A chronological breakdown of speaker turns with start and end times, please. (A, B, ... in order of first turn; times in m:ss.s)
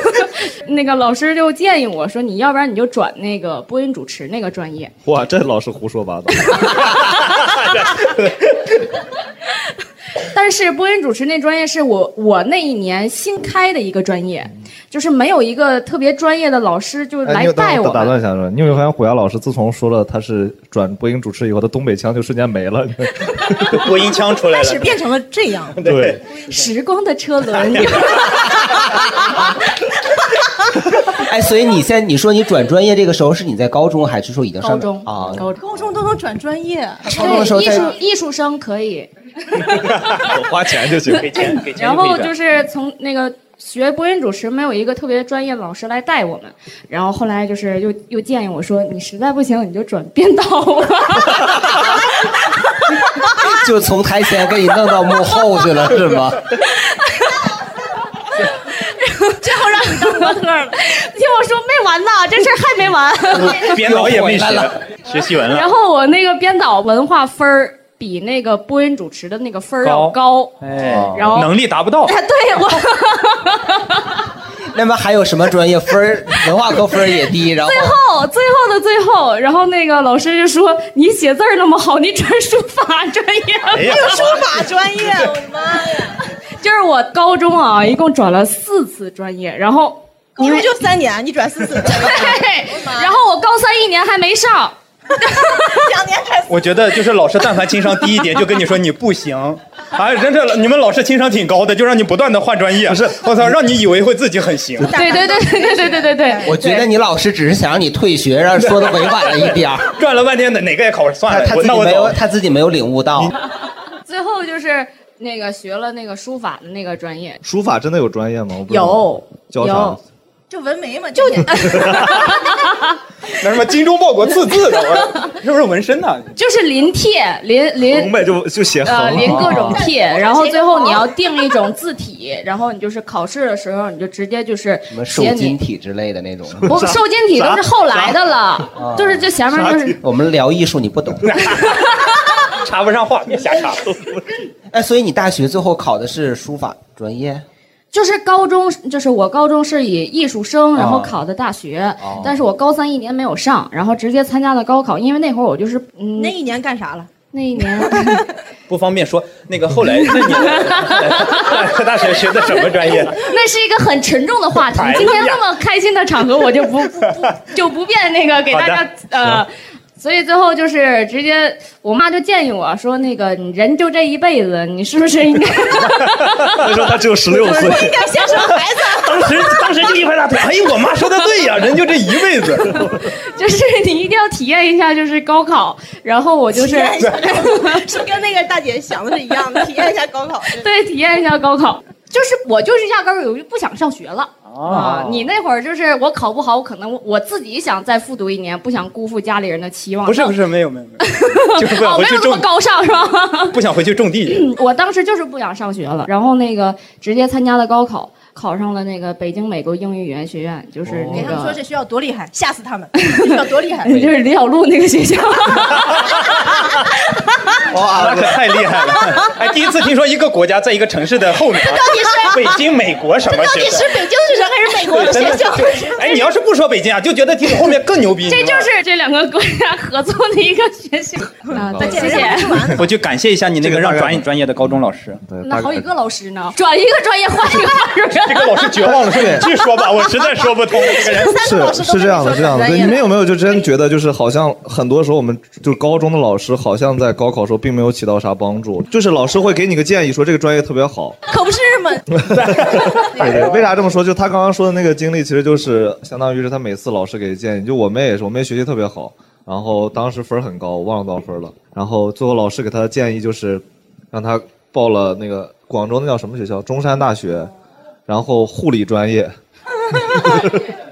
0:00.2-0:04.9 A
0:05.0-0:07.1 B
0:07.7-0:08.4 C
0:10.3-0:18.2 A
0:17.3-0:23.9 B
0:23.7-0:24.9 C
0:24.5-0:25.8 D
0:25.8-0:26.2 C
0:25.8-0:26.2 B
0:26.5-0:28.4 A
0:31.2-0:35.4 E
0:34.6-0:35.6 A
0:35.1-0:35.4 B
0:35.6-0:37.9 D
0:37.1-0:40.0 A
0:37.1-0:37.9 E
0:40.2-0:41.5 B
0:41.1-0:42.3 C
0:41.6-0:51.8 A
0:53.4-0:56.4 E
0:58.8-1:03.7 A
0:59.4-1:00.8 D
1:03.4-1:05.7 C
1:03.7-1:04.8 E
1:05.5-1:14.2 A
1:09.8-1:12.2 C
1:10.8-1:11.1 E
1:14.7-1:18.0 E
1:17.6-1:24.1 A
1:23.7-1:24.4 C
1:23.8-1:26.2 D
1:26.6-1:30.7 A
1:30.4-1:33.1 D
1:31.8-1:35.9 A
1:35.6-1:36.7 D
1:36.5-1:44.9 C
1:42.9-1:43.5 B
1:44.8-1:46.9 D
1:44.9-1:46.5 A
1:46.5-1:49.9 E
1:48.8-1:49.4 C
1:49.9-1:52.2 C
1:51.3-1:53.3 E
1:54.1-1:57.4 A
1:57.4-2:00.0 B
1:58.7-2:00.0 A
2:00.5-2:02.1 D
2:01.3-2:02.8 A
2:01.7-2:02.2 B
2:03.4-2:06.3 C
2:06.4-2:08.2 A
2:07.8-2:09.8 B
2:08.8-2:15.6 A
2:09.4-2:11.1 D
2:14.9-2:16.7 E
2:16.6-2:18.2 B
2:16.6-2:20.0 A
2:18.8-2:19.3 E
2:19.5-2:20.0 B
2:20.0-2:21.3 E
2:21.5-2:22.1 A
2:22.5-2:23.9 C
2:24.7-2:27.4 E
2:27.9-2:36.4 A
2:30.8-2:31.2 E
2:32.0-2:32.3 E
2:36.2-2:37.1 D
2:37.3-2:38.2 A
2:37.7-2:38.2 D
2:38.7-2:43.2 C
2:40.1-2:41.6 A
2:43.1-2:56.6 A
2:44.7-2:45.4 C
2:48.5-2:48.8 C
2:56.5-2:58.1 B
2:57.3-2:59.6 D
2:59.0-3:02.8 C
3:02.8-3:07.9 A
3:06.5-3:10.7 D
3:10.6-3:20.4 A
3:14.5-3:15.1 C
3:14.7-3:15.1 D
3:20.0-3:22.5 C
3:21.0-3:23.6 A
3:23.5-3:24.4 C
3:24.3-3:31.6 A
3:30.9-3:31.3 B
3:31.1-3:34.1 D
3:33.0-3:36.5 A
3:37.7-3:38.4 B
3:37.9-3:43.9 C
3:41.6-3:42.6 D
3:43.3-3:46.1 D
3:44.9-3:48.7 C
3:48.3-3:52.7 A
3:51.5-3:52.9 D
3:51.5-3:52.3 B
3:52.8-3:55.2 C
3:53.6-3:54.7 B
3:55.3-3:55.9 B
3:55.4-3:58.8 A
3:58.3-4:01.5 C
3:58.8-3:59.5 B
4:01.0-4:03.2 D
4:01.4-4:11.2 B
4:11.3-4:12.0 D
4:12.2-4:27.5 B
4:12.4-4:13.0 C
4:13.2-4:13.5 D
4:28.1-4:29.3 B
4:29.9-4:30.7 B